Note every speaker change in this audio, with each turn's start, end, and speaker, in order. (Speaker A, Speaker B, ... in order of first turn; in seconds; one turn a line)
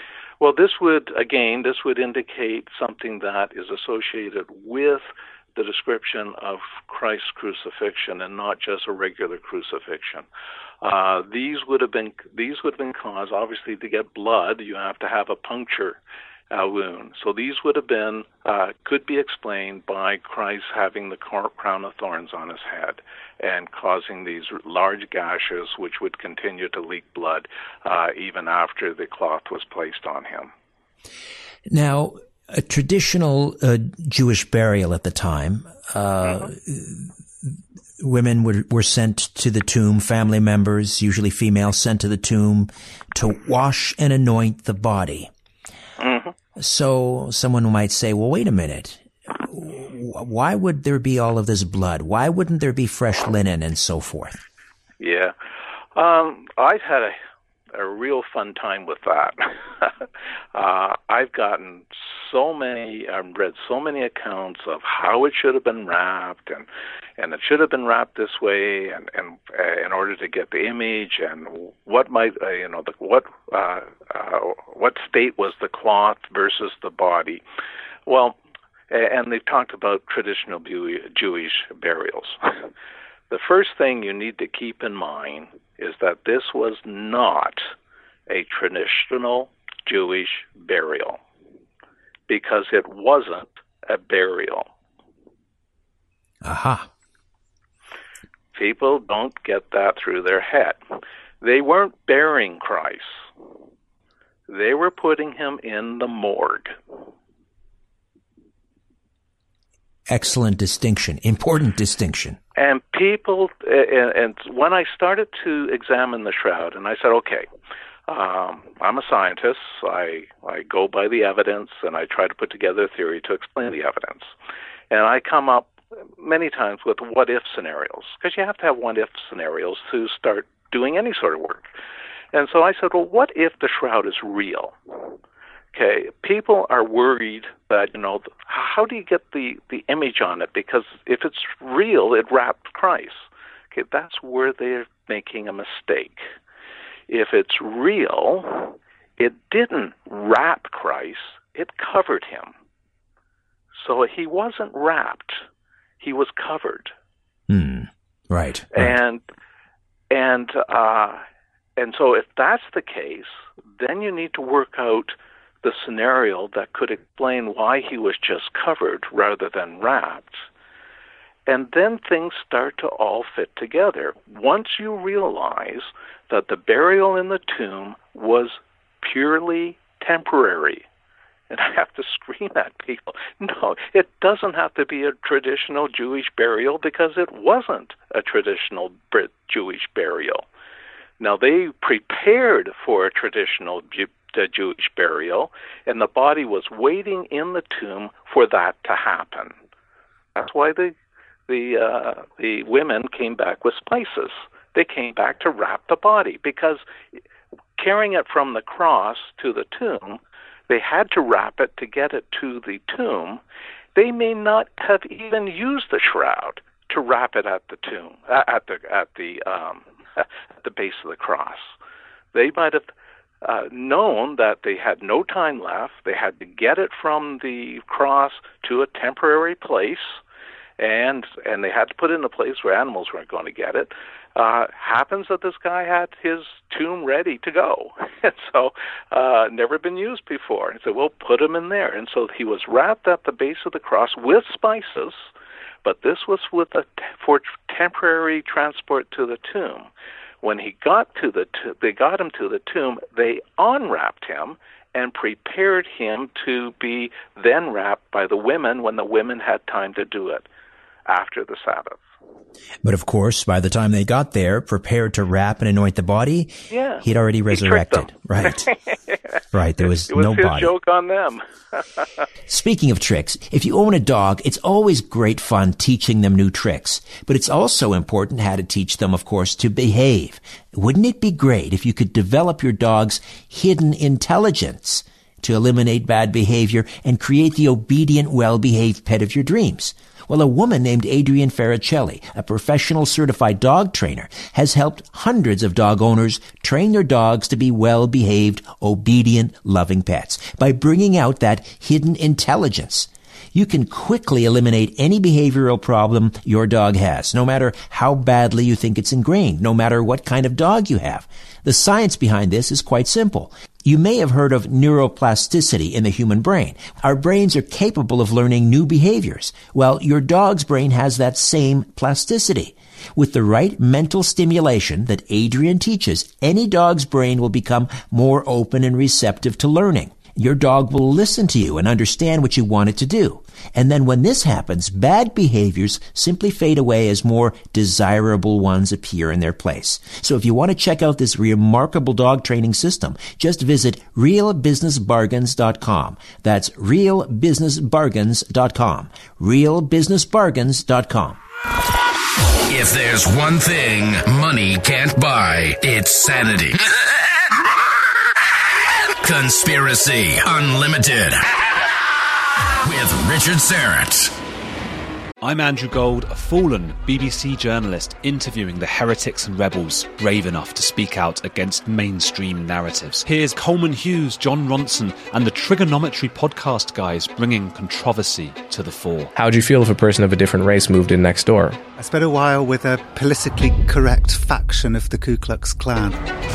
Speaker A: 0.4-10.3
Speaker A: 10.8-16.0
Speaker A: 16.5-30.5
Speaker B: 31.7-45.3
Speaker A: 36.2-36.5
Speaker A: 46.0-46.3
Speaker B: 46.6-54.4
Speaker A: 55.0-55.3
Speaker A: 56.0-57.2
Speaker A: 57.7-66.7
Speaker A: 67.2-77.4
Speaker A: 78.1-78.4
Speaker A: 78.9-82.7
Speaker A: 83.3-87.7
Speaker A: 88.3-91.2
Speaker A: 92.3-94.7
Speaker B: 96.4-96.9
Speaker A: 98.5-100.8
Speaker A: 101.4-103.3
Speaker A: 104.5-106.8
Speaker B: 110.1-112.4
Speaker A: 112.5-117.5
Speaker A: 118.1-124.3
Speaker A: 124.9-131.7
Speaker A: 132.3-134.8
Speaker A: 135.7-146.2
Speaker A: 147.1-152.5
Speaker A: 153.7-155.4
Speaker A: 156.0-156.9
Speaker B: 157.5-159.0
Speaker A: 158.7-159.2
Speaker A: 160.1-161.2
Speaker A: 161.8-170.5
Speaker A: 171.5-180.8
Speaker A: 181.5-190.4
Speaker A: 191.2-199.6
Speaker A: 200.3-200.9
Speaker A: 201.5-206.8
Speaker A: 207.8-213.4
Speaker A: 213.9-221.7
Speaker A: 222.3-222.9
Speaker A: 223.4-230.2
Speaker A: 230.8-245.3
Speaker A: 245.8-249.9
Speaker A: 250.4-260.5
Speaker A: 261.1-262.0
Speaker B: 262.8-268.7
Speaker A: 266.7-269.2
Speaker B: 269.5-270.7
Speaker A: 269.8-272.2
Speaker B: 272.5-351.4
Speaker C: 352.7-356.8
Speaker C: 359.2-361.5
Speaker C: 362.8-364.3
Speaker D: 365.4-379.3
Speaker E: 379.4-381.7
Speaker F: 382.0-386.2